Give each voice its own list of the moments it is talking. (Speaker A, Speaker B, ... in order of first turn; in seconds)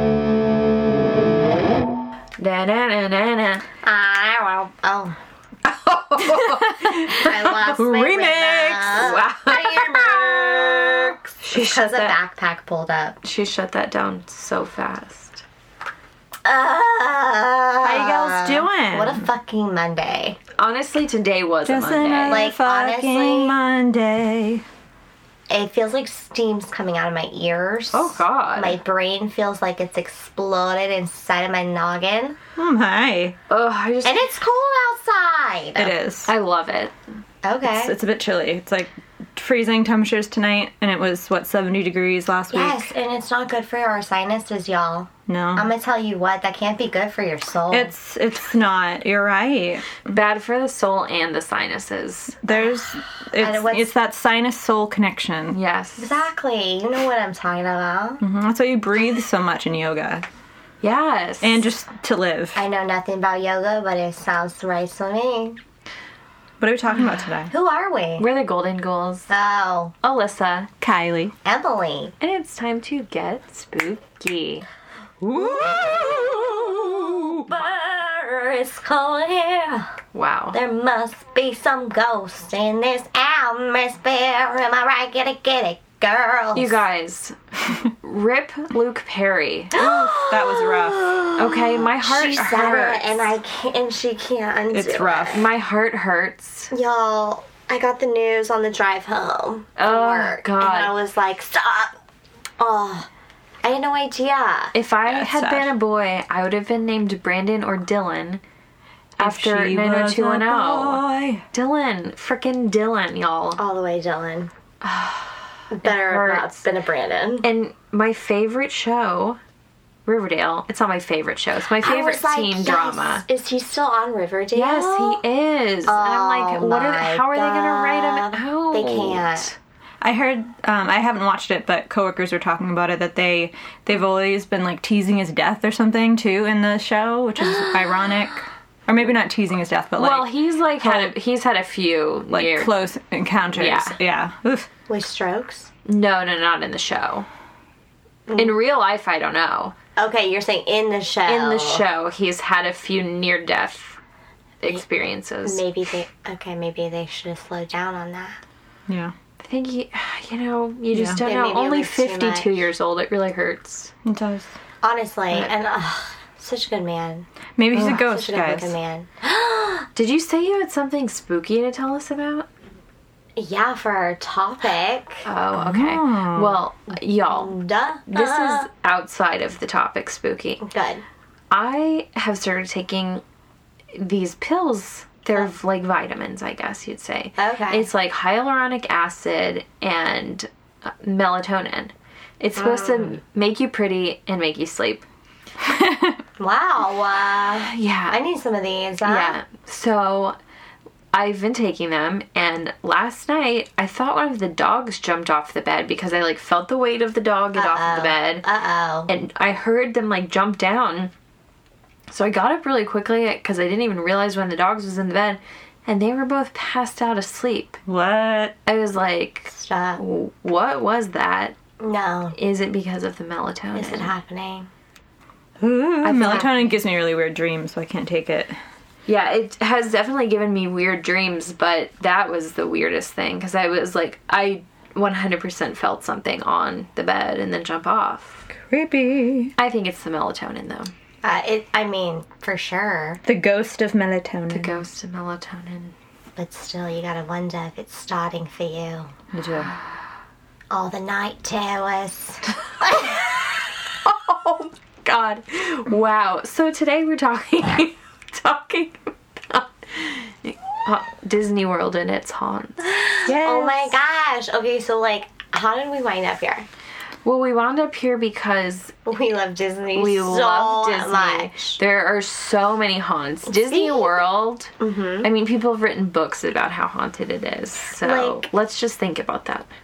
Speaker A: 2.4-3.6, 5.7-6.8, 9.0-10.1, 11.5-12.1, 13.2-15.4, 20.6-22.4, 27.9-28.8, 33.5-34.4, 36.2-36.9, 50.1-52.4, 55.5-56.2, 60.8-61.6, 68.2-69.3, 70.0-70.7, 72.2-74.6, 80.1-80.6, 86.5-89.7, 91.4-93.2, 95.1-96.7, 99.8-100.9, 104.7-108.4, 109.2-113.6, 114.8-116.6, 117.4-119.4, 120.0-123.2, 124.5-129.5, 139.9-142.7, 143.5-144.0, 145.8-147.3, 148.3-149.8, 151.2-154.0, 154.6-155.6, 159.4-163.9, 169.9-172.5, 175.2-177.5, 178.1-180.6, 181.5-183.2, 183.9-195.0, 197.5-198.2, 199.0-200.3, 201.1-208.4, 209.1-211.1, 212.1-217.8, 218.7-221.5, 222.3-224.1, 226.0-226.7, 229.1-238.4, 239.6-240.9, 244.5-245.9, 254.0-262.8, 267.2-268.9, 269.9-274.7, 275.2-279.7
Speaker B: 3.8-5.2, 6.8-13.2, 16.4-20.4, 22.2-23.5, 25.5-32.4, 34.0-35.9, 37.4-37.9, 42.5-47.9, 53.4-53.9, 56.0-58.2, 62.5-65.6, 67.5-68.2, 69.3-69.9, 71.4-72.1, 75.3-79.9, 80.5-86.8, 89.7-95.5, 96.7-101.9, 102.6-103.1, 103.6-104.7, 113.6-114.5, 115.7-117.5, 121.8-125.2, 125.8-129.5, 137.4-138.1, 144.9-145.7, 148.3-148.6, 149.9-151.8, 155.4-158.4, 161.2-162.5, 164.8-169.9, 173.3-175.2, 177.3-178.7, 180.6-181.0, 187.4-187.9, 192.6-193.2, 196.4-199.4, 207.5-209.1, 219.5-220.0, 221.8-222.3, 223.7-224.7, 241.2-243.2, 246.3-249.1, 250.7-253.3, 262.8-266.6, 269.1-271.8, 273.5-274.2, 274.8-275.3, 278.0-278.5
Speaker C: 6.2-9.2, 17.8-19.2, 21.6-24.6, 32.5-33.4, 35.8-36.3, 37.6-42.9, 45.3-45.7, 47.7-50.0, 52.4-55.6, 58.2-60.2, 61.4-62.6, 66.6-67.5, 70.8-71.3, 75.2-77.6, 89.7-91.2, 94.7-95.2, 105.1-105.7, 109.2-111.4, 130.0-141.1, 142.3-144.7, 158.9-159.1, 160.9-161.2, 164.0-164.6, 167.6-168.8, 175.6-176.6, 195.6-196.2, 217.8-218.5, 225.6-228.6, 238.6-239.5, 243.2-244.8, 249.3-249.7, 263.3-264.0